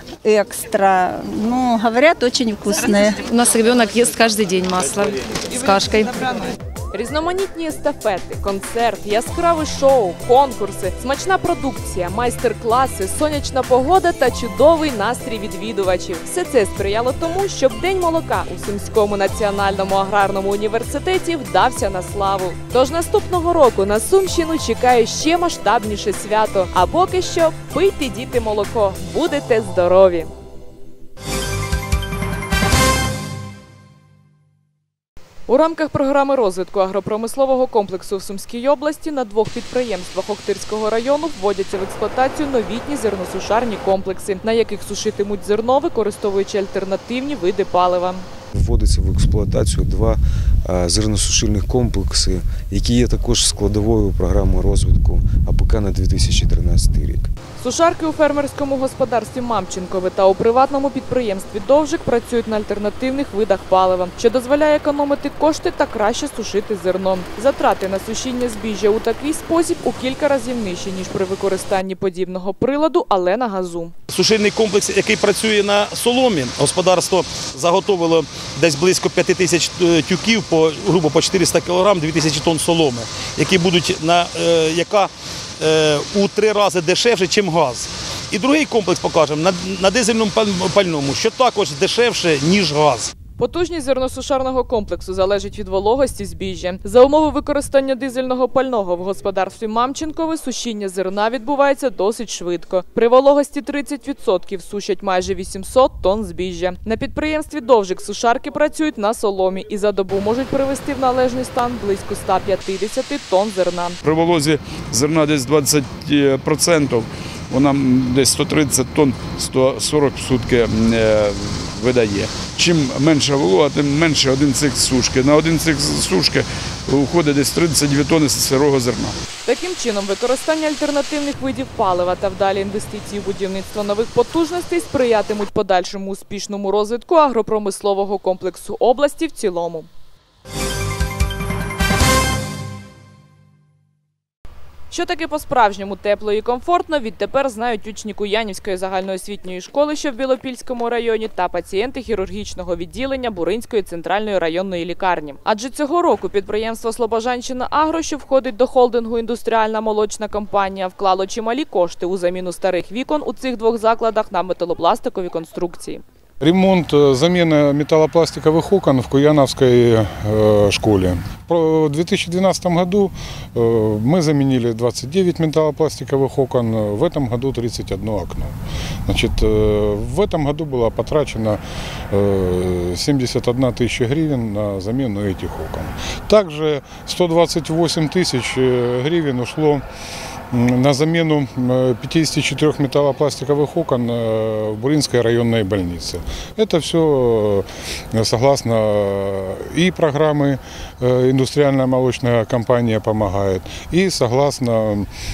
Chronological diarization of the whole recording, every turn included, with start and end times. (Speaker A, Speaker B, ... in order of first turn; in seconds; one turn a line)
Speaker A: 0.2-3.2
Speaker B: 3.4-5.8
Speaker C: 6.9-30.3
Speaker C: 35.5-48.3
Speaker D: 48.5-57.3
Speaker C: 57.6-73.9
Speaker E: 74.1-93.1
Speaker C: 93.4-114.0
Speaker F: 114.0-129.2
Speaker C: 129.5-139.9
Speaker C: 144.9-166.0
Speaker G: 166.4-189.8
Speaker G: 190.5-205.1